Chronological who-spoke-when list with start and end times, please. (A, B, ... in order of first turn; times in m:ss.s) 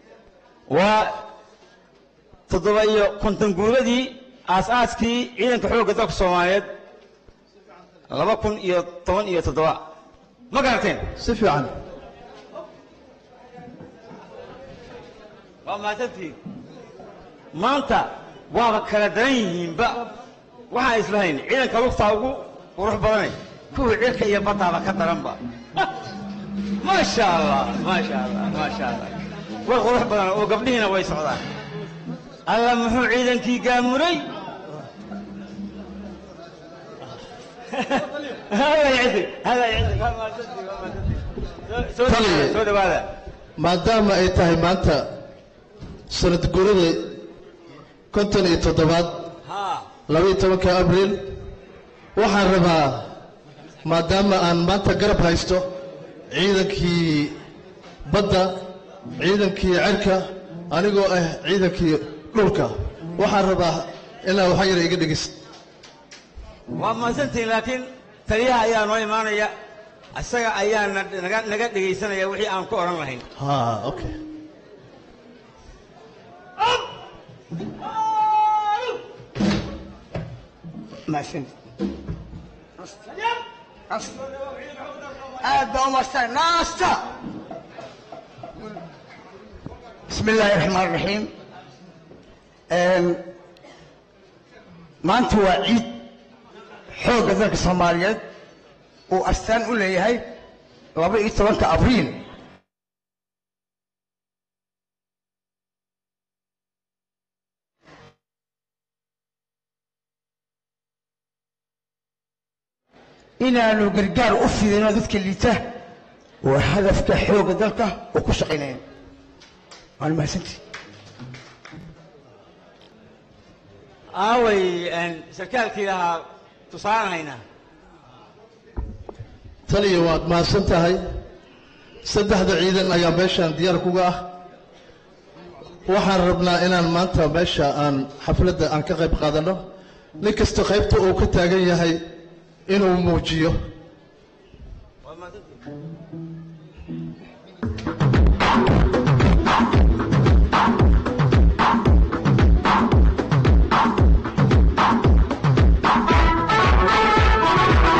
0:00.7-0:01.2 A
0:02.5-0:06.7 A
0:08.1-0:09.8 A
0:10.5-0:11.1 A
0:11.2-0:11.7 B
0:15.6-0:16.4 A
0:17.5-0:20.1 A
0:20.7-0:25.9 A
0:26.8-0:31.4 A
0:32.5-0:34.2 A
0:37.7-0:43.0 A
0:42.0-0:42.6 B
0:43.6-0:45.1 B
0:46.1-0:47.2 B
0:48.1-0:49.3 B
0:49.5-0:49.8 A
0:50.1-0:51.3 B
0:52.1-0:53.1 B
0:53.8-0:55.7 B
0:56.3-0:57.4 B
0:58.1-0:58.6 B
0:59.2-1:05.4 B
1:06.7-1:09.5 A
1:10.1-1:13.2 A
1:13.4-1:14.2 B
1:21.1-1:21.5 C
1:25.4-1:27.0 C
1:30.1-1:31.3 C
1:32.7-1:33.2 C
1:35.0-1:36.0 C
1:36.9-1:38.2 C
1:39.1-1:40.2 C
1:41.0-1:42.2 C
1:53.4-1:55.6 C
1:56.4-1:58.8 C
2:00.0-2:00.6 C
2:04.1-2:07.4 A
2:09.7-2:11.0 B
2:12.0-2:14.3 B
2:15.8-2:19.6 B
2:20.2-2:22.2 B
2:22.7-2:23.6 B
2:25.0-2:25.4 A